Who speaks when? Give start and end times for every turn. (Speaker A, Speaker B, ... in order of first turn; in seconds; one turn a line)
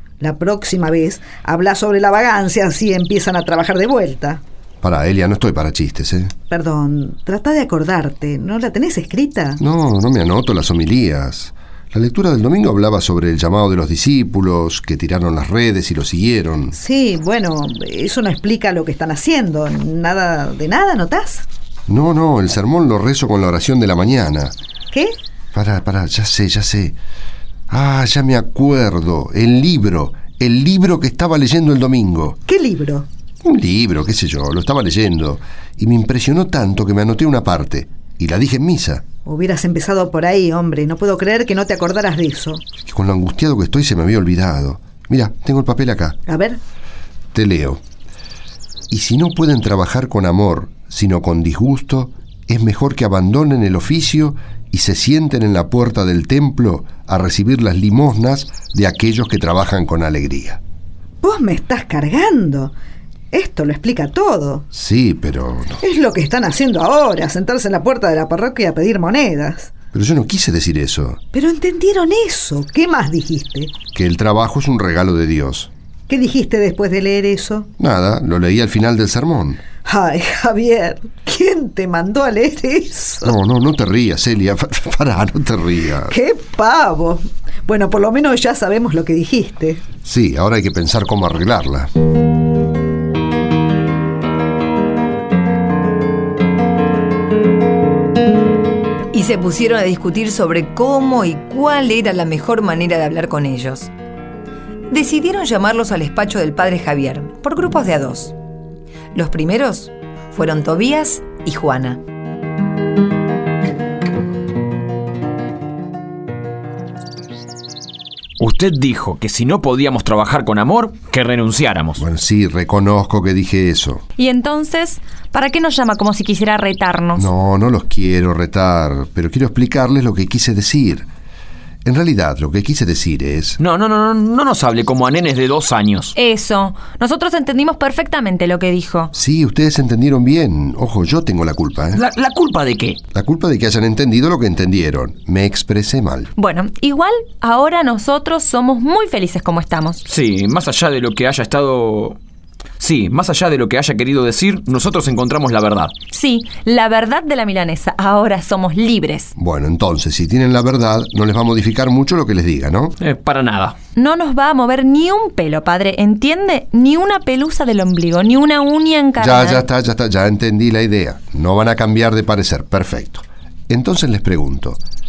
Speaker A: 0.2-4.4
Speaker B: 4.8-6.3
Speaker A: 6.5-9.6
Speaker B: 9.6-16.8
Speaker A: 16.7-21.4
Speaker B: 21.9-24.5
Speaker B: 25.5-27.0
Speaker B: 27.7-32.4
Speaker A: 32.5-33.1
Speaker B: 33.4-39.0
Speaker A: 39.2-42.6
Speaker B: 42.8-46.2
Speaker A: 46.3-46.6
Speaker B: 47.3-47.8
Speaker B: 48.9-60.6
Speaker A: 61.2-62.7
Speaker A: 63.3-64.7
Speaker B: 64.7-65.8
Speaker A: 65.8-69.7
Speaker B: 69.9-71.2
Speaker A: 71.3-73.7
Speaker B: 73.9-75.7
Speaker A: 76.1-77.7
Speaker B: 77.8-79.6
Speaker A: 79.8-83.3
Speaker B: 83.2-86.1
Speaker A: 86.1-89.8
Speaker B: 90.0-91.9
Speaker C: 99.1-103.9
Speaker C: 104.9-108.3
Speaker C: 109.1-112.0
Speaker D: 118.4-122.0
Speaker B: 122.0-124.0
Speaker E: 124.2-127.2
Speaker B: 127.2-131.1
Speaker B: 131.8-133.6
Speaker D: 133.6-136.1
Speaker E: 136.1-139.1
Speaker B: 139.1-142.0
Speaker D: 141.9-143.0
Speaker B: 143.1-146.3
Speaker E: 146.3-150.0
Speaker D: 150.0-152.2
Speaker D: 152.8-155.9
Speaker E: 156.1-159.3
Speaker B: 159.3-162.9
Speaker D: 163.0-163.8
Speaker E: 163.9-169.7
Speaker B: 169.2-174.8